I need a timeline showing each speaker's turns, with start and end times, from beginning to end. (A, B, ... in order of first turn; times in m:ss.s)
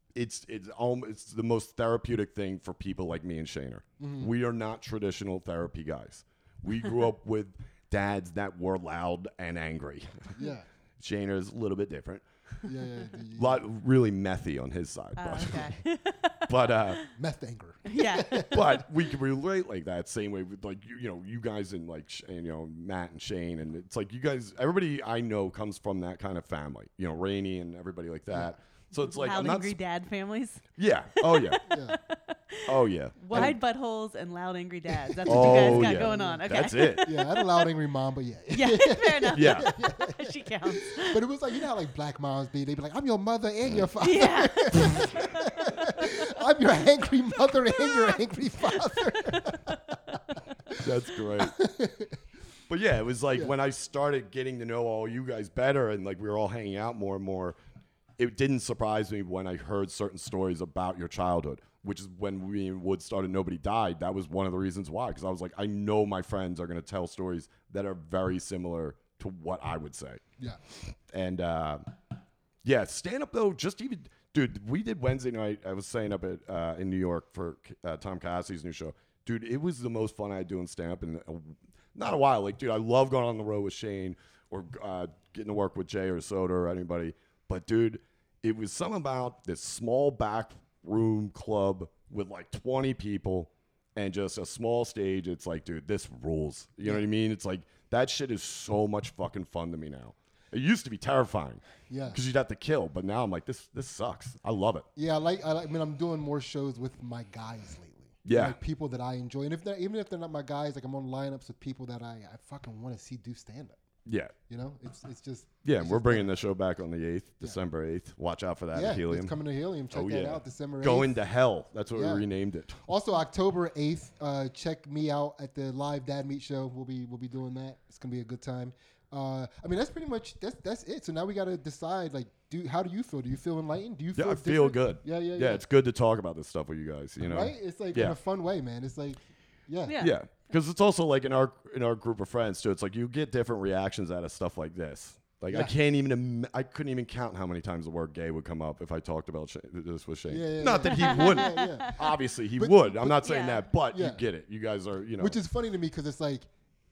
0:00.1-0:10.4 A
0:04.0-0:04.3 B
0:10.4-0:10.6 B
0:11.0-0:12.2 A
0:12.6-0:13.6 B
0:13.3-0:15.8 A
0:15.2-0:17.1 C
0:16.5-0:17.0 A
0:17.2-0:18.6 B
0:17.8-0:18.8 C
0:18.5-0:29.8 A
0:29.0-0:37.7 C
0:30.8-0:31.6 A
0:31.6-0:32.0 B
0:32.6-0:33.6 A
0:35.1-0:50.9 B
0:35.2-0:37.1 A
0:38.5-0:41.2 C
0:39.3-0:39.7 A
0:44.0-0:45.3 C
0:47.9-0:48.1 C
0:48.8-0:49.7 C
0:50.8-0:51.5 A
0:51.4-0:52.2 B
0:52.7-0:57.6 A
0:58.2-1:11.8 A
1:12.6-1:44.9 A
1:41.9-1:42.2 B
1:45.0-1:53.8 B
1:48.2-1:48.6 A
1:54.0-1:54.3 A
1:54.5-1:56.4 B
1:55.6-1:59.4 A
1:58.7-2:01.1 B
1:59.9-2:02.8 A
2:01.9-2:02.2 B
2:02.8-2:15.6 B
2:14.1-2:18.2 A
2:17.2-2:19.9 B
2:19.8-2:20.1 C
2:20.0-2:35.4 A
2:30.3-2:33.3 B
2:30.6-2:31.9 C
2:33.2-2:33.6 C
2:33.9-2:34.2 B
2:35.2-2:36.5 B